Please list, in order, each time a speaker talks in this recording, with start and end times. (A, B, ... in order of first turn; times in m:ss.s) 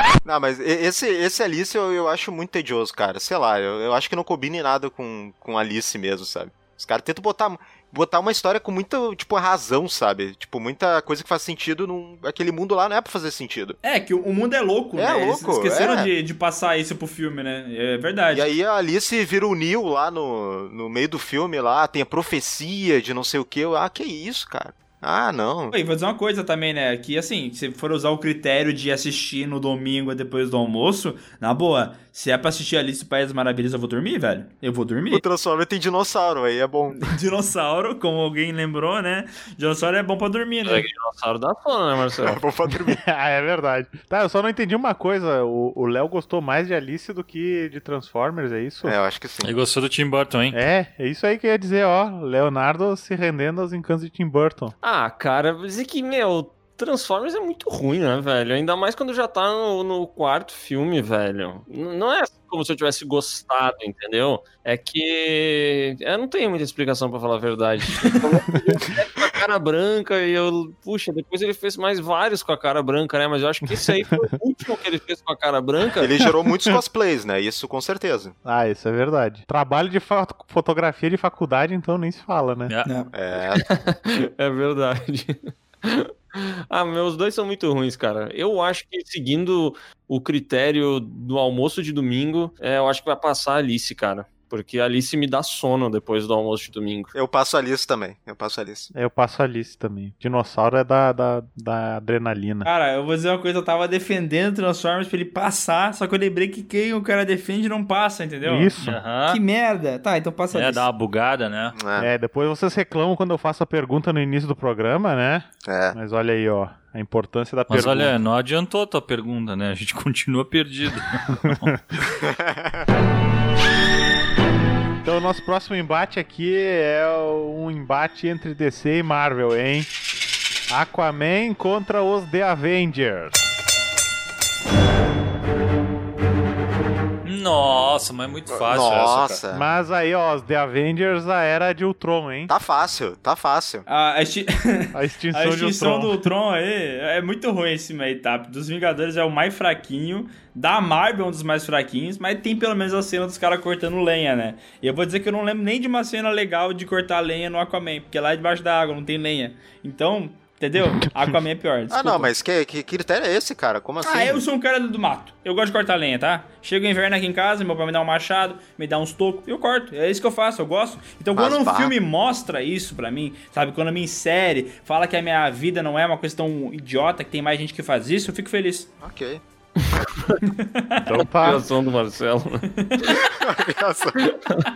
0:00.2-0:13.8 A
0:13.8-0:18.5 B
0:15.0-0:16.1 A
0:18.3-0:25.8 A
0:25.7-0:35.2 B
0:35.1-0:37.2 A
0:37.0-0:40.9 B
0:40.7-0:42.4 C
0:42.2-0:43.0 A
0:42.7-0:49.0 D
0:48.8-0:49.6 A
0:49.4-0:50.6 E
0:50.5-0:54.7 D
0:54.8-1:16.1 C
1:16.0-1:18.4 A
1:18.4-1:22.7 D
1:22.7-1:22.9 E
1:22.8-1:23.1 B
1:23.1-1:23.6 A
1:23.5-1:37.2 C
1:37.2-1:38.9 A
1:38.9-1:42.7 D
1:42.6-1:48.7 B
1:48.4-1:49.0 D
1:48.8-1:49.4 E
1:49.3-1:50.9 B
1:50.5-1:51.8 E
1:51.8-1:52.1 A
1:52.0-1:58.1 D
1:55.7-1:56.0 A
1:57.7-2:01.7 E
2:01.4-2:01.8 D
2:02.1-2:02.8 A
2:05.0-2:09.9 D
2:10.7-2:13.5 D
2:17.2-2:19.4 E
2:18.5-2:19.6 A
2:19.5-2:22.5 D
2:22.5-2:23.9 A
2:23.9-2:42.3 B
2:24.9-2:26.3 D
2:41.9-2:44.4 A
2:44.0-2:58.9 B
2:51.4-2:51.9 A
2:59.0-2:59.4 A
3:00.4-3:01.1 B
3:01.1-3:01.6 D
3:01.4-3:02.7 C
3:02.7-3:03.0 B
3:03.2-3:04.2 A
3:04.3-3:04.6 C